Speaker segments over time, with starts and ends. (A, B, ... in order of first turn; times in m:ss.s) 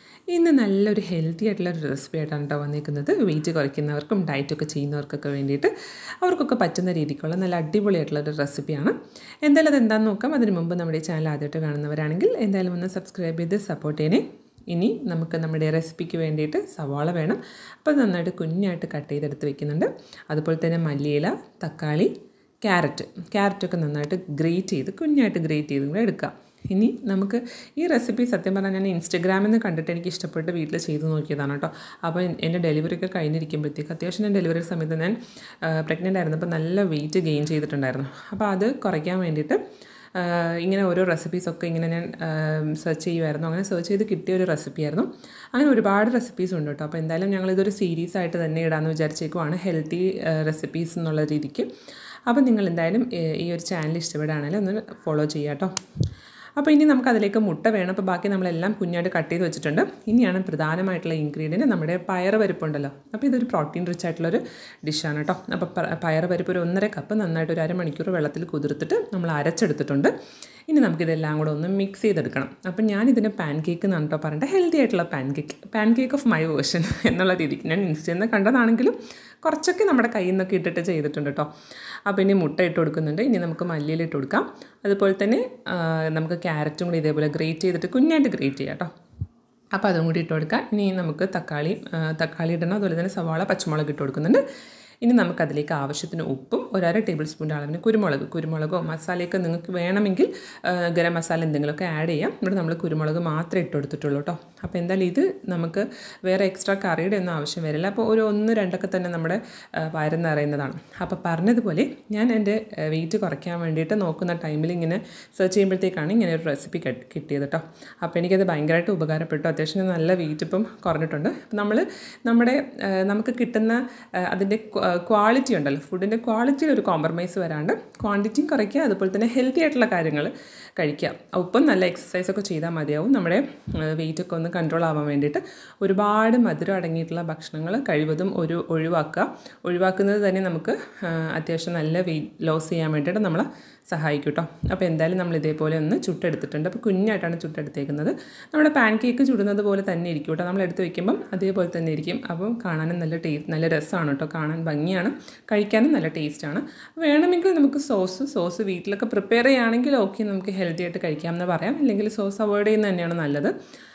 0:00.3-0:05.7 A
0:06.2-0:22.1 A
0:22.6-0:39.6 A
0:40.1-0:51.7 A
0:52.3-0:55.7 A
0:56.6-1:10.1 A
1:10.7-1:21.5 A
1:22.1-1:28.9 A
1:29.7-1:34.4 A
1:35.0-2:43.5 A